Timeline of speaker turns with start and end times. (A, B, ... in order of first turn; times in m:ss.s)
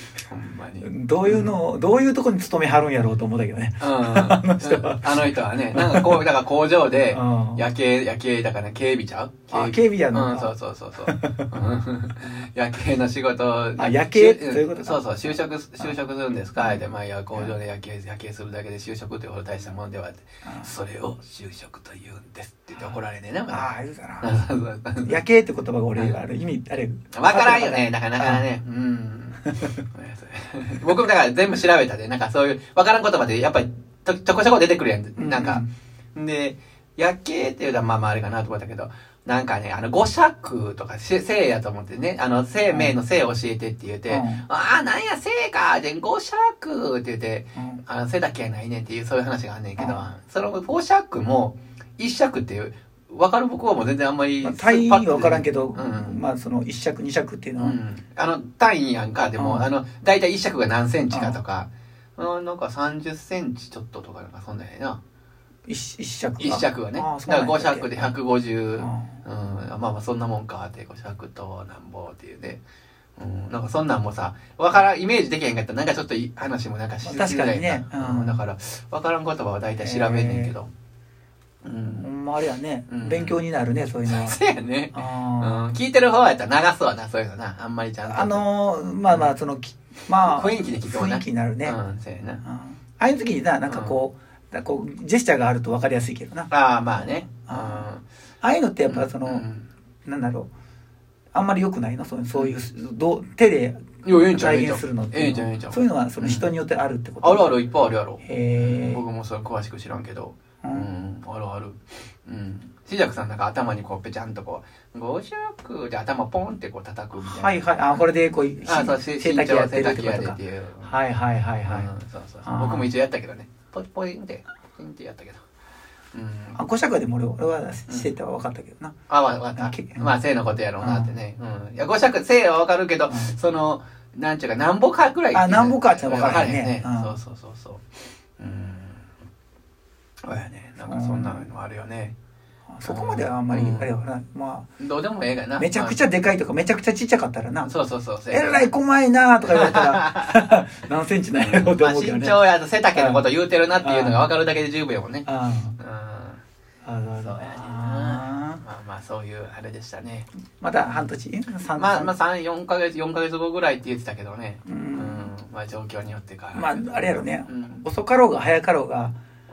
0:00.3-0:01.5 A
0:00.8-0:06.2 B
0:03.8-0:23.7 A
0:07.1-0:07.6 B
0:09.5-0:10.5 B
0:11.0-0:11.5 B
0:13.8-0:15.9 B
0:16.6-0:16.8 B
0:20.4-0:20.7 B
0:23.5-0:24.3 B
0:24.2-0:25.2 A
0:25.0-0:28.4 B
0:27.1-0:35.6 A
0:35.2-0:35.7 B
0:36.1-0:56.2 A
0:42.7-0:42.9 B
0:44.1-0:44.4 B
0:47.6-0:47.8 B
0:49.8-0:50.0 B
0:54.4-0:57.8 B
0:57.6-1:05.0 A
0:59.4-0:59.7 B
1:01.1-1:01.4 B
1:05.7-1:08.1 B
1:06.4-1:12.6 A
1:08.8-1:09.2 B
1:13.2-1:20.7 A
1:17.0-1:18.4 B
1:19.8-1:20.5 B
1:21.6-1:22.1 A
1:22.0-1:24.4 B
1:22.9-1:23.4 A
1:24.1-1:28.4 A
1:24.9-1:25.7 B
1:28.1-1:31.8 B
1:29.1-1:29.3 A
1:30.2-1:32.4 A
1:32.4-1:36.5 B
1:33.7-1:34.0 A
1:36.5-1:38.0 A
1:37.0-1:37.9 B
1:38.4-1:39.4 B
1:38.9-1:39.7 A
1:40.0-1:40.5 B
1:41.3-1:47.6 B
1:44.0-1:46.5 A
1:47.2-1:57.6 A
1:48.2-1:49.0 B
1:50.6-1:50.9 B
1:57.2-2:01.9 B
1:58.6-2:00.9 A
2:01.7-2:05.4 A
2:02.4-2:02.9 B
2:06.1-2:06.6 A
2:06.5-2:08.9 B
2:07.9-2:08.1 A
2:09.1-2:17.8 A
2:09.5-2:10.1 B
2:10.8-2:11.1 B
2:13.1-2:13.4 B
2:15.3-2:17.1 B
2:18.4-2:19.0 A
2:20.2-2:22.1 A
2:20.8-2:21.5 B
2:22.7-2:24.7 B
2:22.8-2:23.9 A
2:24.8-2:26.0 A
2:25.6-2:27.7 B
2:27.6-2:28.7 A
2:28.3-2:32.4 B
2:29.4-2:30.6 A
2:31.4-2:35.3 A
2:32.9-2:33.2 B
2:33.8-2:34.2 B
2:35.2-2:35.8 B
2:35.8-2:36.4 A
2:36.8-2:38.6 B
2:37.2-2:40.3 A
2:40.6-2:42.1 B
2:40.8-2:41.1 A
2:41.7-2:47.8 A
2:44.7-2:45.3 B
2:46.5-2:49.1 B